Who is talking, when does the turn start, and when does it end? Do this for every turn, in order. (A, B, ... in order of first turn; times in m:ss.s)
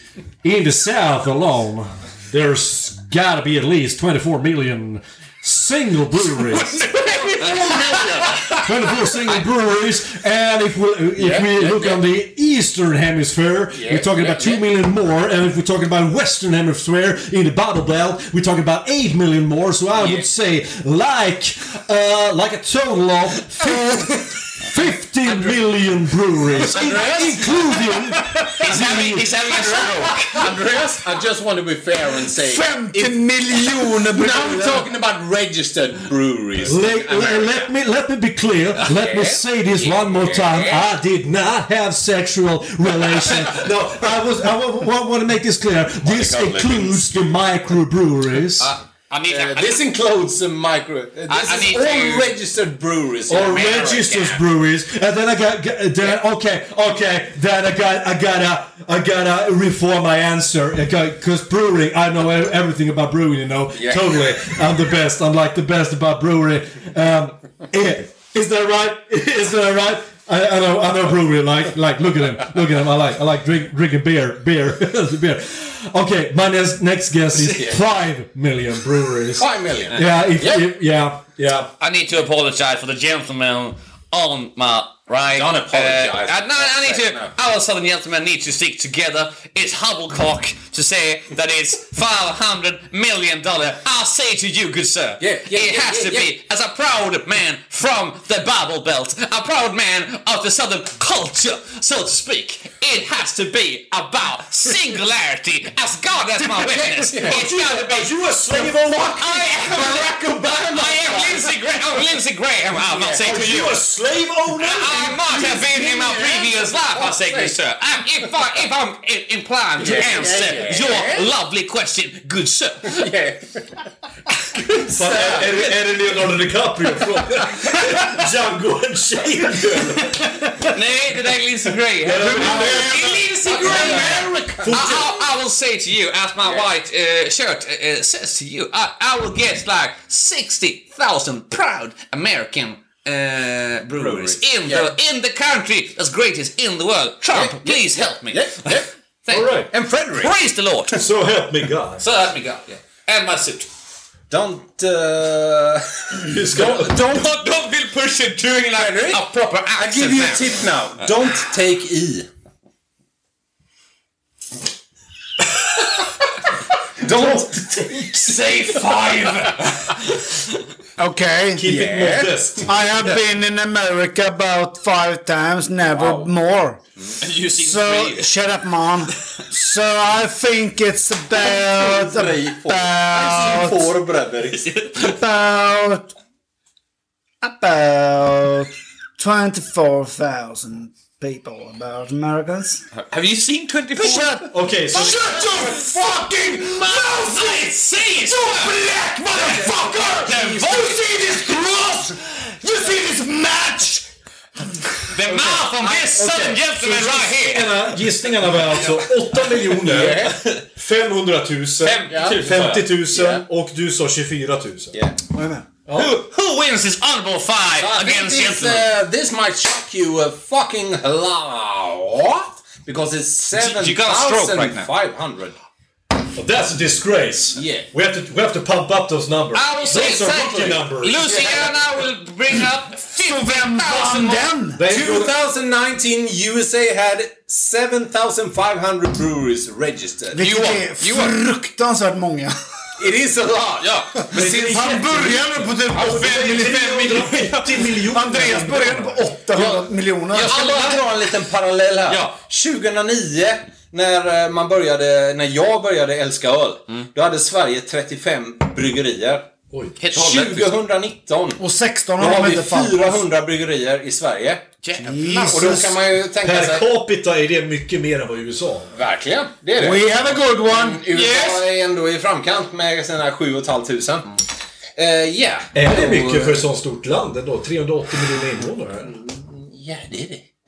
0:00.4-0:29.3 A
0:06.7-0:08.6 B
0:06.8-0:08.6 C
0:11.2-0:12.0 C
0:13.7-0:14.6 C
0:20.0-0:20.2 C
0:23.8-0:24.3 D
0:26.6-0:27.9 C
0:27.7-0:30.6 D
0:28.6-0:30.5 B
0:28.8-0:37.5 C
0:32.1-0:34.9 D
0:36.6-0:48.7 A
0:38.8-0:40.9 C
0:46.0-0:47.2 C
0:48.6-0:49.8 B
0:49.3-0:54.1 C
0:51.3-0:52.3 B
0:53.3-1:21.7 A
0:53.5-0:54.4 B
1:03.7-1:04.4 C
1:17.5-1:17.8 C
1:19.4-1:20.7 C
1:21.8-1:53.8 B
1:25.3-1:27.3 C
1:35.2-1:36.3 C
1:46.6-1:47.4 C
1:47.2-1:49.4 A
1:48.5-1:52.0 C
1:52.9-1:53.2 C
1:53.2-1:55.0 A
1:54.6-2:03.1 B
1:55.0-1:57.5 C
1:59.8-2:01.3 C
2:02.9-2:03.6 C
2:04.8-2:05.7 C
2:04.8-2:10.8 A
2:10.7-2:31.0 B
2:12.0-2:15.2 A
2:12.1-2:15.1 C
2:16.4-2:16.7 C
2:23.9-2:24.9 C
2:27.2-2:28.9 C
2:29.3-2:29.7 A
2:29.7-2:30.3 C
2:31.0-2:32.0 A
2:32.0-2:33.7 B
2:34.3-2:36.9 C
2:36.2-2:37.1 A
2:36.6-2:40.6 B
2:38.8-2:39.2 C
2:39.7-2:42.3 C
2:47.0-2:48.4 C
2:47.9-2:50.6 B
2:48.9-2:49.4 C
2:51.0-2:51.6 D
2:51.6-2:52.7 A
2:51.6-2:52.6 C
2:52.6-2:56.8 D
2:55.9-2:56.3 C
2:57.2-2:58.3 B
2:57.5-3:03.9 D
3:01.3-3:04.7 C
3:04.6-3:05.2 B
3:04.9-3:06.1 D
3:07.4-3:12.8 D
3:12.9-3:15.7 B
3:13.9-3:24.0 D
3:14.5-3:15.2 A
3:15.3-3:15.9 C
3:16.7-3:18.7 B
3:19.3-3:20.7 C
3:20.2-3:21.0 B
3:25.1-3:28.0 B
3:25.2-3:25.6 D
3:25.5-3:26.1 C
3:26.0-3:34.9 A
3:29.7-3:30.4 C
3:31.8-3:32.8 B
3:32.1-3:33.4 C
3:34.9-3:35.2 C
3:35.3-3:35.7 D
3:35.9-3:36.2 A
3:35.9-3:38.9 B
3:37.7-3:45.6 C
3:43.5-3:44.9 B
3:46.4-3:51.4 A
3:47.5-3:47.9 C
3:49.5-3:54.5 B
3:51.2-3:51.7 D
3:51.3-3:51.7 C
3:53.2-3:54.8 D
3:54.8-3:55.3 A
3:54.8-4:00.4 C
4:00.3-4:02.5 D
4:00.4-4:01.3 B
4:03.0-4:05.3 C
4:03.8-4:04.2 B
4:04.3-4:09.2 A
4:04.3-4:10.6 D
4:05.9-4:08.9 B
4:09.5-4:11.3 B
4:09.5-4:19.5 C
4:12.1-4:12.3 B
4:20.0-4:20.8 B
4:20.1-4:21.6 C
4:21.6-4:23.2 D
4:22.2-4:24.6 C
4:24.8-4:25.8 B
4:25.0-4:26.0 D
4:25.5-4:26.9 C
4:26.4-4:28.9 A
4:28.9-4:34.3 C
4:29.8-4:31.0 D
4:31.1-4:31.7 B
4:35.0-4:36.6 C
4:35.7-4:39.1 A
4:39.0-4:40.4 C